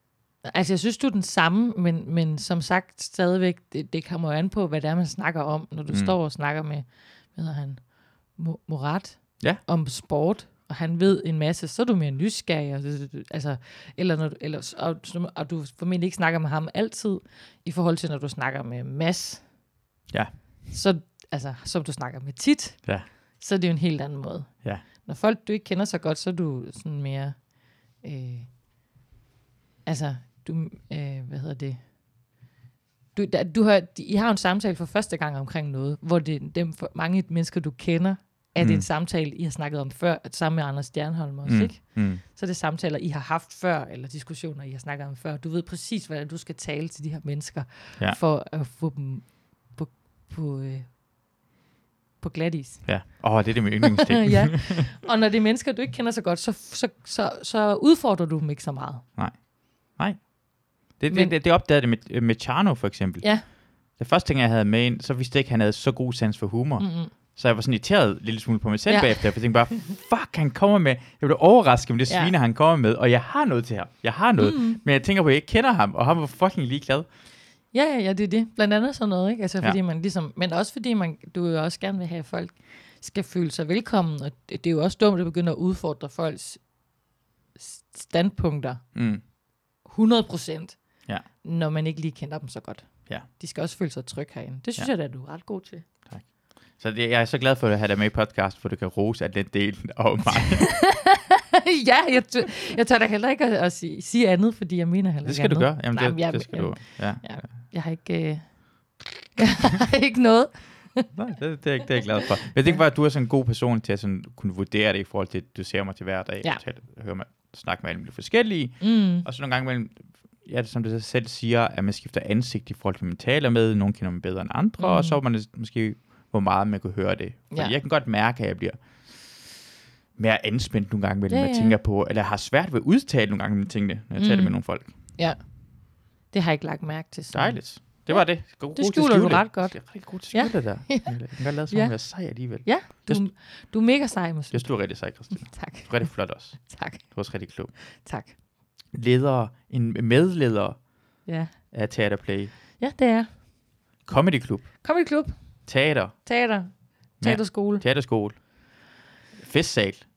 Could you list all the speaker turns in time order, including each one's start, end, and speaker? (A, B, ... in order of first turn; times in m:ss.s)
0:00.4-0:19.4 A
0:05.9-0:06.2 B
0:20.7-0:27.5 A
0:28.0-0:28.5 A
0:29.9-0:31.8 A
0:33.2-0:50.9 A
0:38.6-0:38.9 B
0:41.5-0:42.2 B
0:52.2-0:53.2 A
0:52.9-0:54.9 B
0:53.8-0:59.0 A
0:59.2-1:00.3 B
1:00.9-1:03.4 B
1:03.9-1:17.1 B
1:06.8-1:07.1 A
1:08.9-1:09.8 A
1:14.4-1:14.8 A
1:17.7-1:26.6 A
1:27.6-1:28.8 A
1:28.9-1:29.2 B
1:29.8-1:30.8 A
1:31.4-1:35.9 A
1:36.8-1:40.7 B
1:40.3-1:48.6 A
1:45.2-1:47.3 B
1:49.4-1:51.1 A
1:51.1-2:08.8 B
1:58.8-1:59.3 A
2:04.8-2:05.2 A
2:10.2-2:14.9 B
2:11.3-2:11.8 A
2:14.2-2:14.6 A
2:16.3-2:17.6 A
2:17.3-2:23.2 B
2:18.8-2:19.8 A
2:20.3-2:21.1 A
2:21.7-2:22.0 A
2:22.6-2:27.1 A
2:24.5-2:27.7 B
2:27.9-2:28.4 A
2:28.9-2:30.8 B
2:31.3-2:31.5 A
2:31.7-2:32.5 B
2:32.8-2:33.3 A
2:34.1-2:34.7 B
2:34.8-2:35.3 A
2:35.7-2:36.2 B
2:36.2-2:37.8 A
2:37.2-2:38.4 B
2:39.4-2:40.0 B